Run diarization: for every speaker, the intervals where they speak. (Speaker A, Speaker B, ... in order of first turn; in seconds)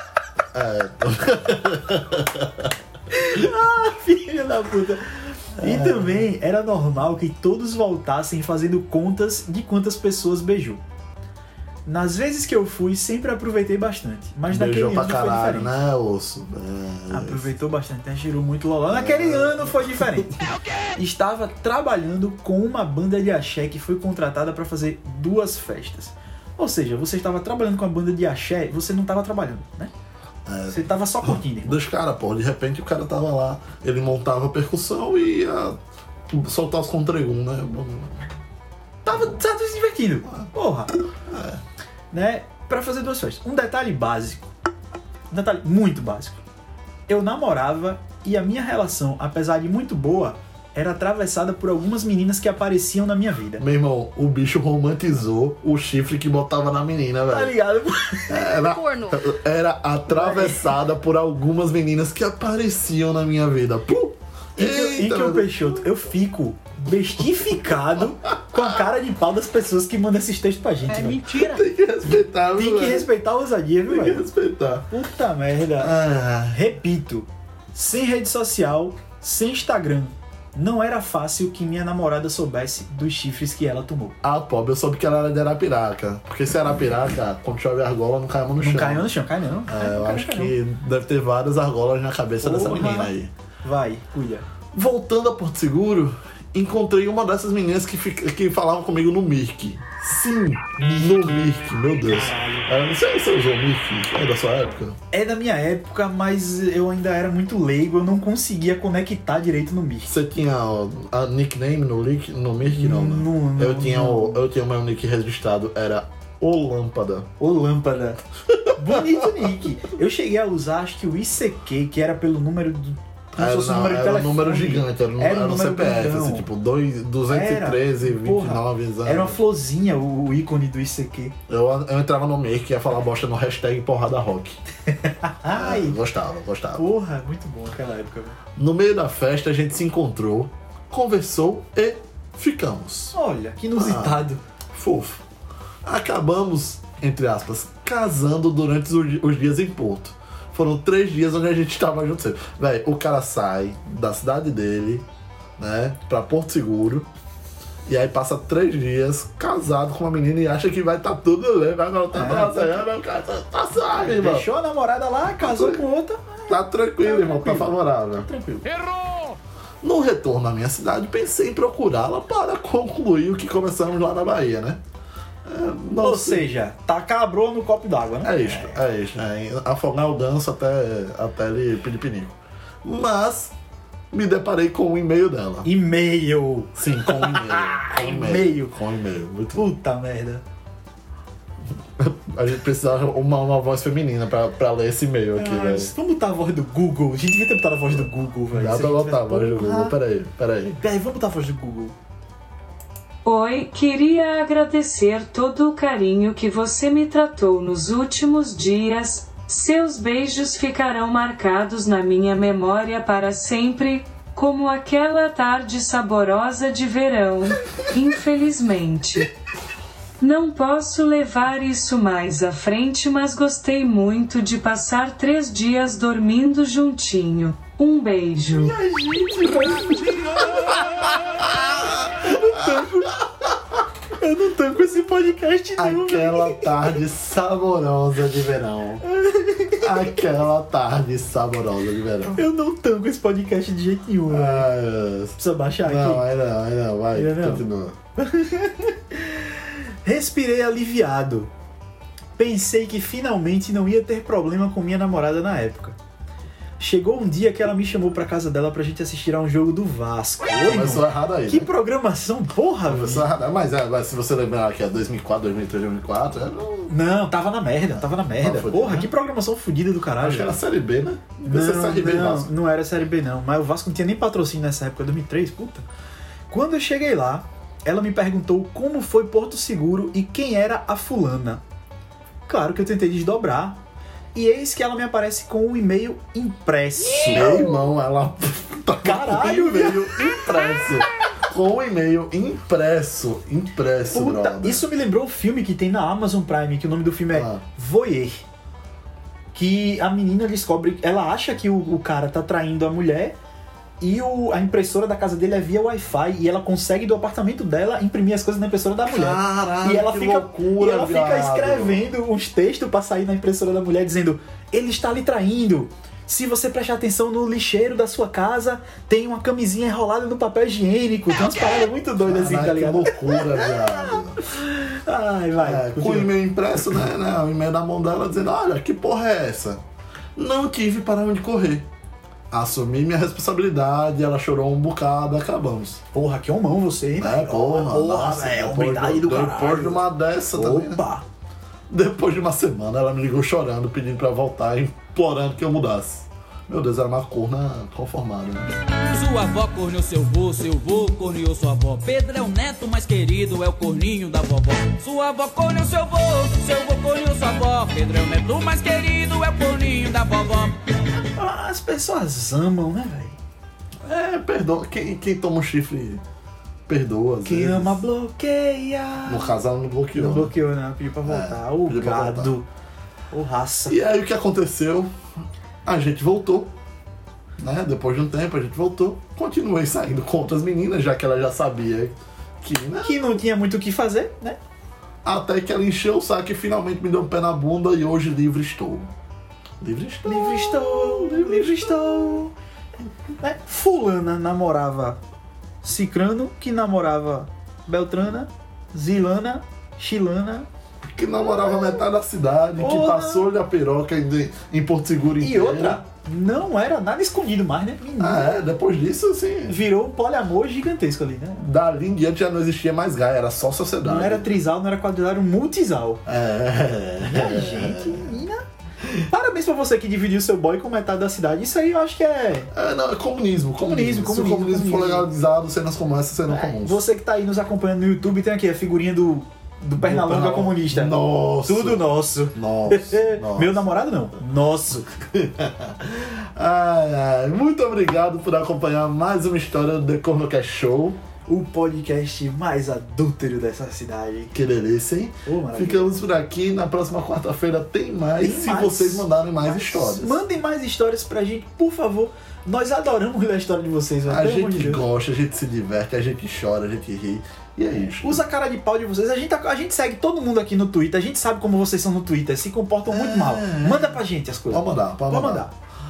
Speaker A: 0.5-2.7, 5.6-6.3, 14.5-17.5, 18.9-20.1, 30.4-35.8, 36.3-38.2, 41.3-41.6, 53.6-57.5, 58.3-65.8, 71.0-73.1, 73.9-74.9, 75.8-76.6, 84.2-89.1, 89.7-93.3, 94.7-105.0, 110.1-117.3, 118.6-119.2, 123.4-129.4, 131.5-134.6, 135.4-136.8, 138.6-143.2, 143.8-145.2, 145.8-155.0, 155.6-157.1, 157.8-164.5, 165.3-165.8, 166.5-168.3, 169.8-174.8, 175.4-176.4, 178.2-183.5, 184.1-185.7, 186.8-189.6, 192.0-195.9, 198.5-200.8, 231.2-232.8, 235.8-239.0, 239.8-242.4, 244.3-247.9, 260.6-261.7, 262.8-266.9, 268.4-269.1, 270.2-272.5, 287.3-294.8, 297.3-297.6, 309.0-312.1, 322.2-324.4, 325.6-329.8, 330.4-331.9, 332.5-336.0, 337.2-341.0, 341.9-348.7, 364.1-366.2, 366.9-368.0, 369.2-370.5, 371.2-372.6, 373.9-375.1, 375.8-376.7, 377.6-383.4, 385.2-389.1, 389.8-392.0, 401.1-406.0, 408.2-409.8, 411.6-414.5, 416.2-418.4, 422.7-427.0, 429.9-433.8, 435.3-441.2, 444.5-450.4, 454.3-458.4, 463.1-465.7
Speaker B: 3.1-10.8, 11.8-15.7, 17.1-20.4, 20.9-29.9, 30.7-31.8, 39.0-40.9, 42.1-44.5, 45.3-46.4, 47.1-53.6, 57.3-58.5, 60.1-60.7, 64.6-71.6, 72.5-74.2, 74.9-84.2, 88.6-90.5, 92.4-94.5, 102.0-102.8, 105.1-110.1, 112.7-114.4, 117.4-118.2, 118.7-126.5, 127.3-131.3, 135.1-136.0, 136.8-138.4, 143.1-144.4, 162.1-162.8, 163.9-168.8, 176.0-178.8, 185.6-188.7, 189.5-190.4, 195.3-199.9, 200.8-201.9, 228.5-230.7, 232.1-233.4, 234.2-237.0, 239.0-239.9, 242.3-244.7, 245.4-246.2, 247.1-247.6, 248.2-251.5, 252.3-256.0, 256.8-263.3, 266.9-270.6, 271.4-275.9, 276.5-281.6, 282.5-283.8, 284.3-287.6, 289.0-290.1, 294.1-298.4, 299.5-303.4, 304.0-326.3, 336.1-340.0, 340.5-341.2, 361.3-363.4, 367.4-369.6, 370.1-372.7, 373.3-374.0, 383.0-384.6, 390.2-392.5, 393.4-395.2, 395.8-400.6, 402.8-403.5, 405.4-408.6, 409.7-411.8, 414.0-416.2, 417.2-418.6, 419.2-422.7, 423.8-425.3, 426.5-435.2, 441.5-444.5, 445.4-446.2, 448.4-455.0, 458.1-465.7
Speaker C: 203.2-219.3, 220.2-228.7
Speaker D: 349.0-360.7